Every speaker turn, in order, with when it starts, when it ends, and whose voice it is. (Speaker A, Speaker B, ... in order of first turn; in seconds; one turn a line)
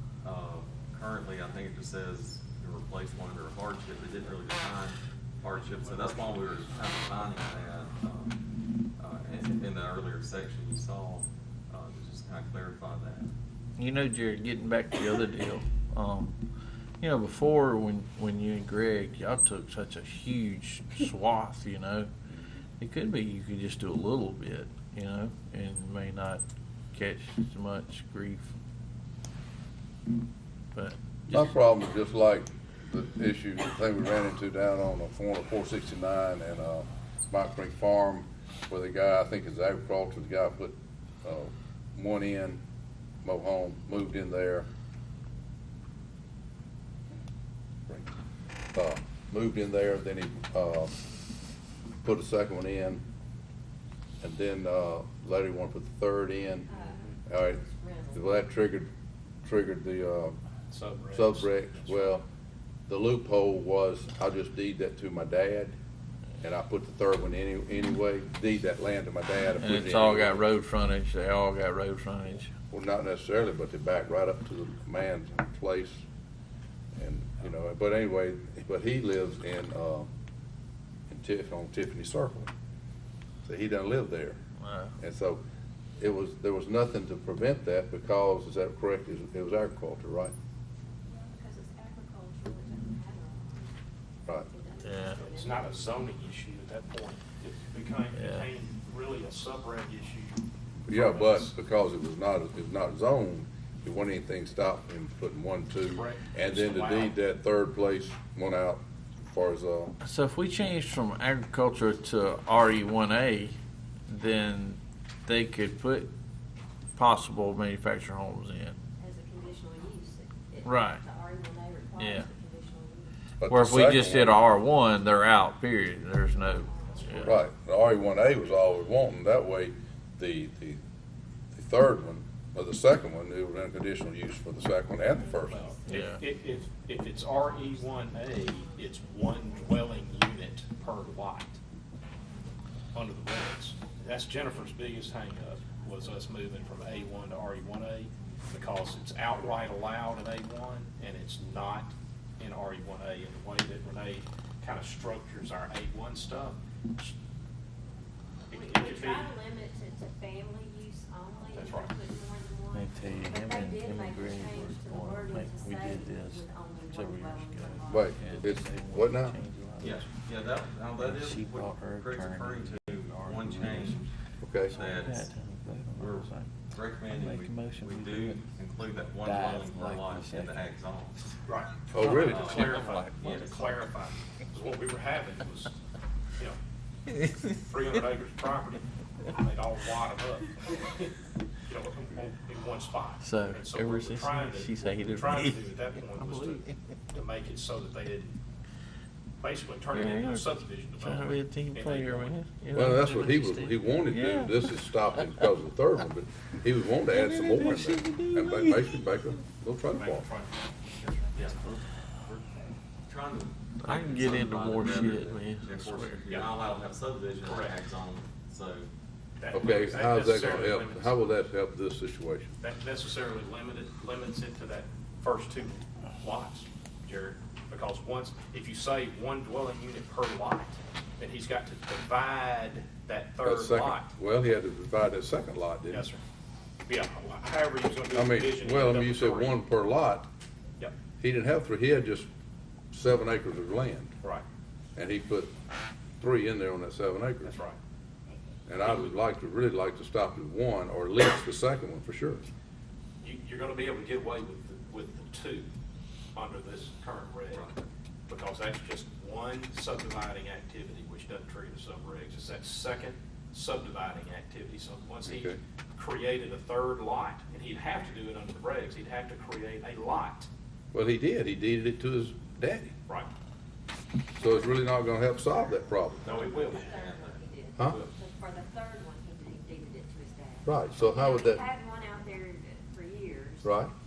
Speaker A: 0.2-8.4
Speaker A: 9.0-13.3
Speaker B: 13.8-16.4
Speaker B: 17.0-22.1
Speaker B: 22.8-28.5
Speaker B: 30.7-31.5
Speaker C: 31.3-42.6
Speaker C: 43.2-44.7
Speaker C: 48.7-51.0
Speaker C: 52.0-53.0
Speaker C: 54.2-56.7
Speaker D: 56.7-58.4
Speaker C: 57.3-57.6
Speaker C: 58.1-58.9
Speaker C: 59.4-60.4
Speaker E: 60.7-62.2
Speaker C: 61.1-62.2
Speaker C: 62.9-65.7
Speaker C: 66.4-70.5
Speaker B: 69.6-72.5
Speaker C: 72.7-76.0
Speaker C: 77.0-80.1
Speaker C: 81.1-82.5
Speaker C: 83.4-84.4
Speaker B: 84.6-85.0
Speaker C: 85.0-85.4
Speaker C: 86.0-90.3
Speaker D: 91.1-93.8
Speaker D: 94.3-96.3
Speaker B: 94.8-95.2
Speaker E: 95.2-101.5
Speaker B: 98.1-98.5
Speaker C: 100.9-110.0
Speaker E: 105.9-107.2
Speaker B: 110.0-113.6
Speaker B: 114.1-116.1
Speaker B: 117.0-118.8
Speaker D: 119.0-123.2
Speaker B: 120.7-121.0
Speaker B: 122.0-122.3
Speaker C: 123.4-124.5
Speaker B: 123.5-127.4
Speaker D: 126.3-127.5
Speaker C: 127.2-130.8
Speaker C: 131.5-135.8
Speaker D: 134.9-140.7
Speaker E: 135.5-141.6
Speaker B: 135.9-136.2
Speaker E: 142.9-157.2
Speaker D: 144.4-149.1
Speaker D: 158.5-168.7
Speaker E: 158.5-159.3
Speaker E: 161.5-161.9
Speaker B: 162.7-170.1
Speaker C: 167.9-169.4
Speaker A: 169.8-174.1
Speaker B: 171.0-174.1
Speaker C: 174.4-174.8
Speaker B: 174.6-176.5
Speaker A: 174.7-175.3
Speaker A: 176.0-181.2
Speaker B: 177.1-178.4
Speaker B: 179.2-180.7
Speaker E: 181.5-185.8
Speaker B: 181.9-183.7
Speaker C: 181.9-182.5
Speaker A: 182.2-182.7
Speaker A: 183.2-183.5
Speaker E: 187.5-191.1
Speaker E: 191.7-198.4
Speaker B: 193.2-195.6
Speaker B: 196.2-196.6
Speaker E: 199.4-202.4
Speaker B: 199.9-205.3
Speaker C: 202.7-210.3
Speaker B: 207.1-209.0
Speaker E: 210.0-211.2
Speaker A: 211.3-211.6
Speaker B: 211.6-211.8
Speaker A: 213.1-218.9
Speaker B: 213.8-216.2
Speaker E: 216.3-216.5
Speaker E: 217.4-217.8
Speaker E: 219.4-221.2
Speaker C: 219.5-222.6
Speaker E: 222.6-234.1
Speaker C: 233.4-236.1
Speaker E: 235.9-236.2
Speaker E: 236.9-239.6
Speaker C: 238.1-240.3
Speaker C: 241.2-242.3
Speaker C: 242.9-244.1
Speaker C: 245.0-245.5
Speaker C: 246.2-247.5
Speaker E: 247.4-247.8
Speaker C: 248.7-252.4
Speaker E: 248.8-249.1
Speaker E: 253.2-255.7
Speaker E: 256.3-257.7
Speaker A: 257.5-257.9
Speaker E: 258.3-270.5
Speaker C: 265.3-265.6
Speaker C: 270.9-272.9
Speaker C: 274.4-276.4
Speaker E: 274.4-274.8
Speaker E: 276.2-276.9
Speaker D: 276.3-283.8
Speaker A: 276.3-277.4
Speaker E: 277.9-278.1
Speaker C: 280.7-281.6
Speaker C: 283.6-283.9